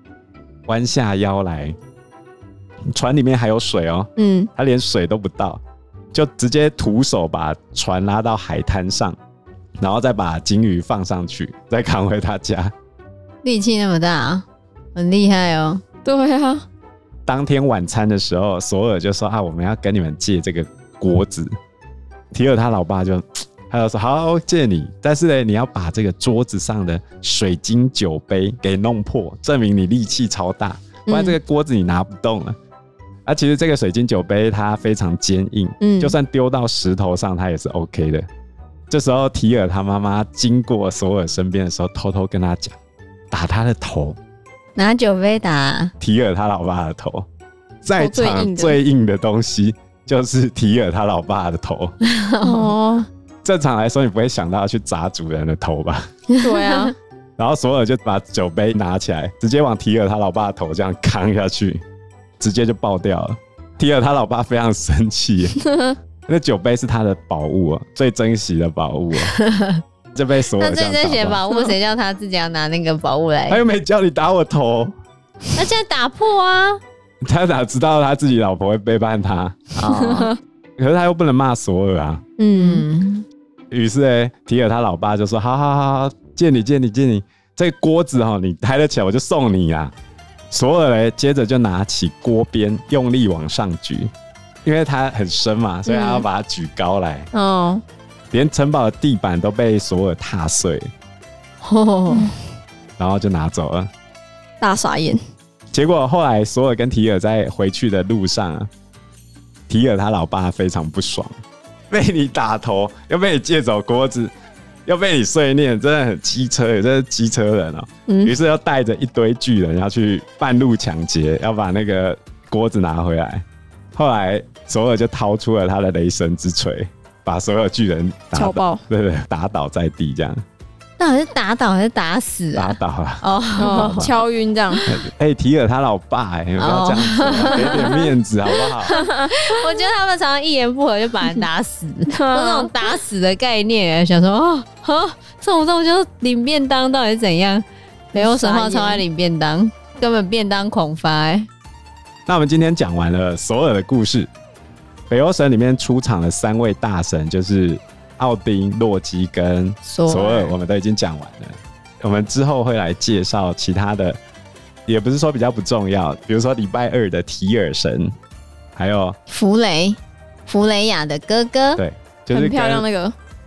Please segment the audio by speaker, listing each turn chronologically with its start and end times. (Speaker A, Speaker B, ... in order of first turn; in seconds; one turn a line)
Speaker A: 0.7-1.8
Speaker A: 2.9-5.6
Speaker B: 4.2-4.5
Speaker A: 6.1-9.2
Speaker A: 9.8-12.7
Speaker C: 13.4-15.8
Speaker B: 16.1-16.6
Speaker A: 17.3-21.5
Speaker A: 22.3-32.6
Speaker B: 31.1-31.4
Speaker A: 33.3-38.3
Speaker B: 35.8-36.2
Speaker A: 38.9-42.8
Speaker A: 43.3-44.2
Speaker C: 44.8-45.9
Speaker A: 46.0-47.3
Speaker A: 47.8-51.9
Speaker B: 48.0-48.8
Speaker C: 52.1-52.7
Speaker B: 52.4-53.1
Speaker A: 53.4-56.1
Speaker C: 56.3-56.9
Speaker B: 56.4-56.9
Speaker A: 57.4-61.8
Speaker A: 62.4-65.6
Speaker B: 65.6-65.9
Speaker A: 66.3-69.3
Speaker C: 69.3-69.8
Speaker A: 70.2-71.4
Speaker C: 70.6-73.6
Speaker A: 73.5-74.9
Speaker C: 75.5-76.8
Speaker A: 77.2-79.8
Speaker C: 79.8-80.3
Speaker B: 80.0-80.3
Speaker A: 80.8-82.2
Speaker B: 82.4-82.8
Speaker C: 82.5-83.3
Speaker A: 83.7-89.9
Speaker A: 90.5-94.1
Speaker A: 94.6-97.3
Speaker B: 95.9-96.3
Speaker B: 97.3-97.8
Speaker A: 98.3-100.9
Speaker C: 101.6-102.3
Speaker A: 103.0-103.9
Speaker B: 104.6-105.2
Speaker A: 105.7-108.7
Speaker A: 109.7-111.3
Speaker A: 111.9-114.3
Speaker A: 114.9-123.4
Speaker B: 118.1-118.3
Speaker A: 124.0-130.4
Speaker B: 128.3-128.8
Speaker C: 131.0-134.9
Speaker A: 132.5-133.2
Speaker B: 133.6-134.8
Speaker A: 133.8-134.1
Speaker A: 134.9-138.9
Speaker C: 136.6-138.0
Speaker C: 138.8-151.5
Speaker B: 138.9-139.3
Speaker B: 142.1-142.7
Speaker B: 148.2-149.0
Speaker A: 152.3-154.3
Speaker A: 155.1-164.2
Speaker C: 159.8-160.5
Speaker A: 164.9-168.1
Speaker A: 168.8-169.2
Speaker C: 169.3-171.8
Speaker A: 171.8-172.9
Speaker B: 172.3-173.2